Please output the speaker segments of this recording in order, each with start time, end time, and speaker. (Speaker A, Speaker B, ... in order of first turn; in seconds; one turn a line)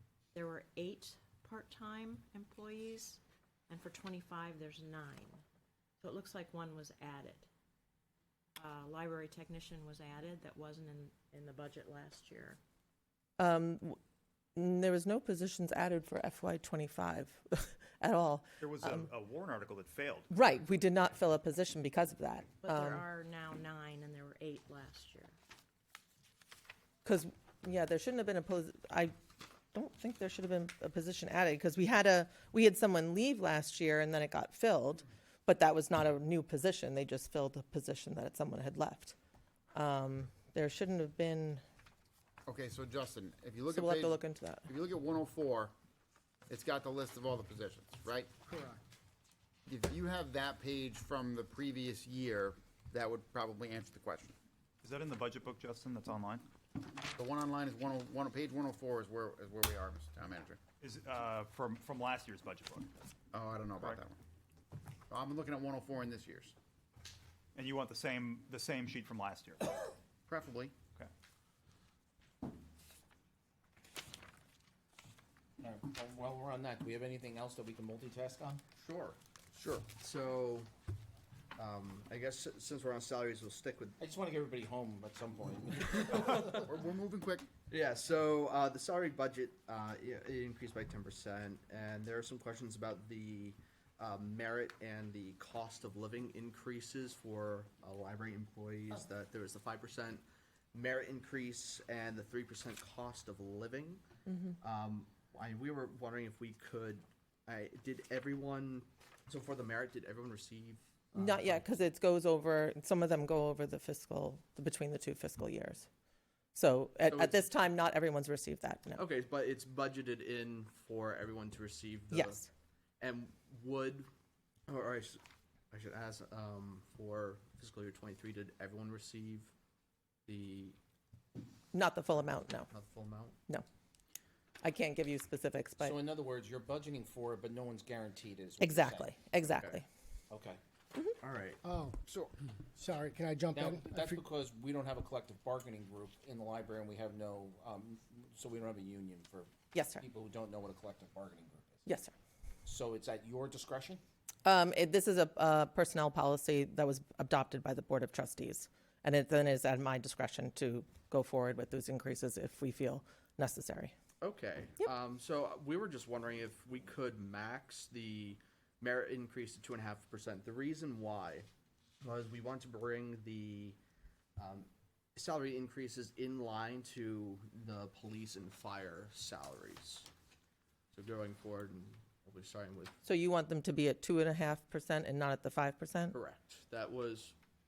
Speaker A: 0.3-5.4
Speaker A: 6.0-7.5
Speaker A: 8.6-12.6
Speaker B: 13.4-14.0
Speaker B: 14.6-19.1
Speaker C: 18.6-20.3
Speaker B: 20.3-23.0
Speaker A: 22.6-25.4
Speaker B: 27.0-29.1
Speaker B: 29.7-39.1
Speaker B: 39.7-41.6
Speaker D: 42.5-45.7
Speaker B: 43.7-44.7
Speaker D: 46.5-48.3
Speaker E: 48.5-48.8
Speaker D: 49.7-54.3
Speaker C: 54.8-56.5
Speaker D: 57.1-60.6
Speaker C: 60.8-62.9
Speaker D: 63.3-64.2
Speaker D: 65.1-66.5
Speaker C: 67.5-69.7
Speaker D: 70.3-70.7
Speaker F: 75.6-78.6
Speaker G: 78.8-79.2
Speaker D: 79.6-79.8
Speaker G: 79.9-80.7
Speaker G: 81.5-84.0
Speaker F: 84.0-86.7
Speaker D: 86.6-87.5
Speaker G: 87.7-104.0
Speaker B: 104.3-104.6
Speaker G: 104.6-111.7
Speaker B: 111.2-115.9
Speaker B: 116.5-119.0
Speaker G: 117.0-117.5
Speaker G: 118.9-122.4
Speaker B: 122.1-122.5
Speaker G: 123.0-124.1
Speaker G: 124.7-129.5
Speaker G: 130.2-130.8
Speaker B: 131.7-132.7
Speaker G: 132.7-133.4
Speaker B: 134.6-135.9
Speaker F: 135.8-139.2
Speaker B: 138.6-139.8
Speaker G: 139.4-139.8
Speaker F: 140.3-140.6
Speaker G: 141.2-141.6
Speaker E: 141.6-142.0
Speaker D: 142.1-142.3
Speaker E: 142.7-144.2
Speaker F: 143.5-151.8
Speaker B: 149.7-150.0
Speaker B: 151.8-152.1
Speaker F: 152.6-154.0
Speaker B: 154.4-163.9
Speaker G: 164.2-171.5
Speaker G: 172.0-173.8
Speaker G: 174.4-180.1
Speaker G: 180.9-182.9
Speaker B: 183.0-186.1
Speaker G: 186.1-187.3